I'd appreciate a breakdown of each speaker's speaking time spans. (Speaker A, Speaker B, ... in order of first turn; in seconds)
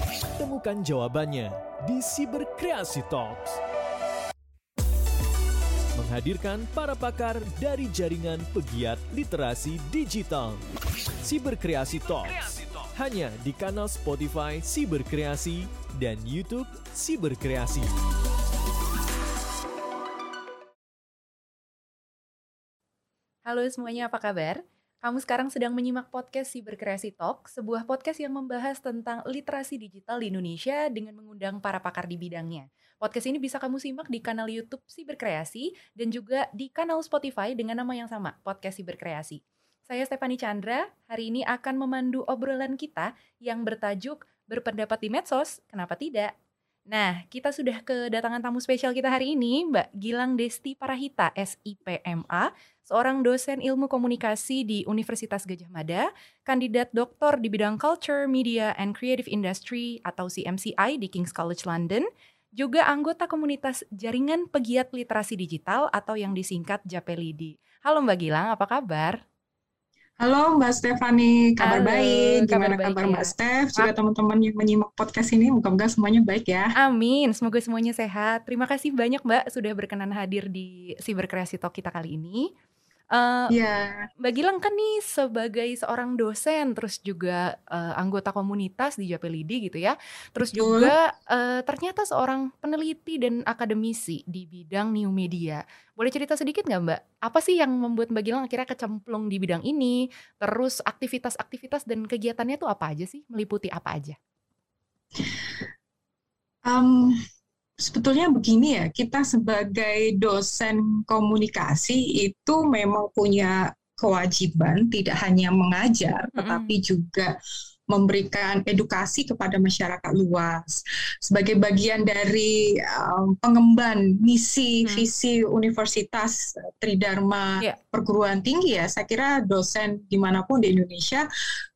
Speaker A: 0.4-3.6, 6.0-10.6, 11.2-17.9
Speaker B: 23.5-46.3, 46.9-62.1, 62.6-69.2, 71.6-73.9, 76.8-82.5, 83.1-83.5, 84.2-104.2, 116.4-116.8
Speaker C: 70.2-76.7, 83.5-84.1, 90.5-90.9, 105.2-105.7, 106.7-107.2, 107.8-117.3, 117.9-131.2